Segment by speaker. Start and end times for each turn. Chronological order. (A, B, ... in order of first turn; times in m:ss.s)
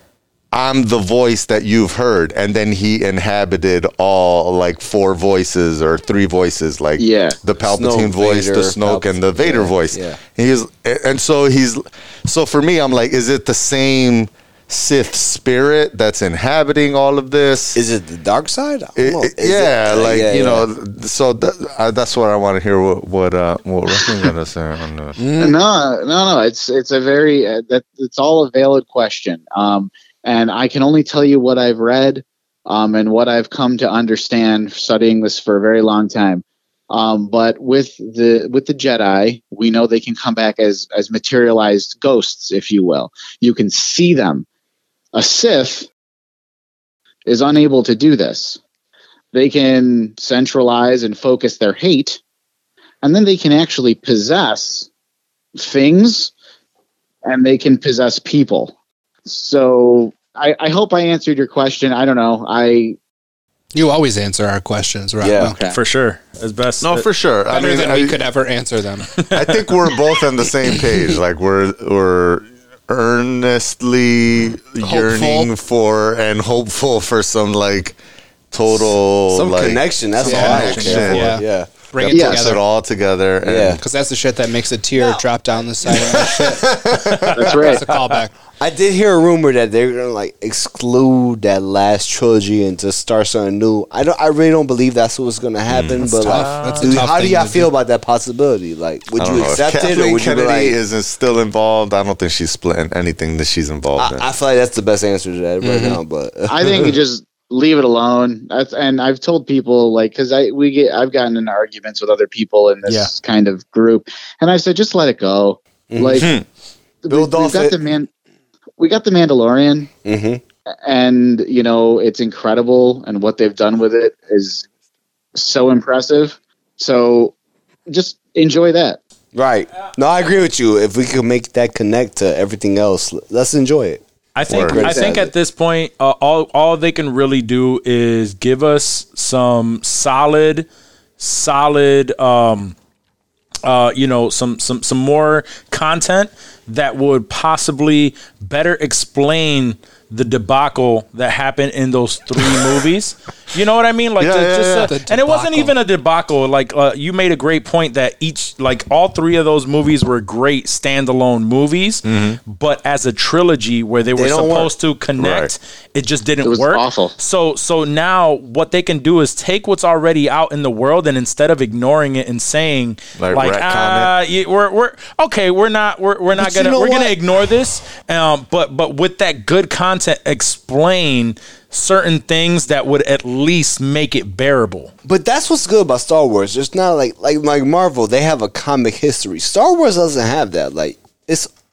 0:00.5-0:17.8 A
0:07.0-0:07.4 B
0:07.7-0:10.2 C
0:17.8-0:20.7 C
0:19.0-0:25.2 A
0:25.2-0:25.6 D
0:25.4-0:44.5 B
0:45.1-0:45.9 B
0:47.3-0:48.6 B
0:49.3-0:52.2 B
0:53.0-0:54.9 B
0:55.6-0:56.3 B
0:57.2-0:58.7 B
0:59.3-1:03.0 B
1:03.7-1:05.6 D
1:05.2-1:05.5 C
1:05.4-1:05.8 B
1:05.7-1:07.0 E
1:06.8-1:08.2 A
1:07.5-1:09.1 D
1:09.2-1:09.7 E
1:09.3-1:18.0 A
1:14.8-1:15.5 D
1:18.5-1:21.4 A
1:19.3-1:21.7 C
1:20.2-1:22.6 D
1:22.1-1:23.8 A
1:22.1-1:22.4 B
1:23.4-1:23.8 C
1:23.8-1:26.6 D
1:26.0-1:27.2 C
1:27.2-1:28.1 E
1:27.4-1:27.8 B
1:27.4-1:28.3 D
1:28.6-1:40.8 C
1:35.7-1:36.1 A
1:36.1-1:37.7 D
1:36.3-1:37.1 E
1:39.2-1:44.3 A
1:44.0-1:47.0 C
1:45.6-1:46.0 D
1:46.5-1:56.3 B
1:52.9-1:53.1 E
1:55.9-1:56.3 C
1:56.2-1:56.4 A
1:57.0-1:58.1 B
1:57.1-1:57.7 A
1:58.8-1:59.9 B
2:00.0-2:00.4 C
2:00.8-2:04.6 B
2:05.4-2:07.4 B
2:07.9-2:09.0 B
2:09.3-2:15.3 C
2:14.4-2:20.7 E
2:14.5-2:14.9 A
2:14.8-2:15.2 B
2:21.2-2:22.8 E
2:23.6-3:04.9 E
2:34.2-2:34.9 A
2:34.8-2:35.8 D
2:42.1-2:42.4 A
2:44.2-2:44.7 C
2:45.2-2:45.5 A
2:46.4-2:47.2 B
2:53.2-2:54.1 A
2:56.4-2:57.2 C
3:05.0-3:11.5 C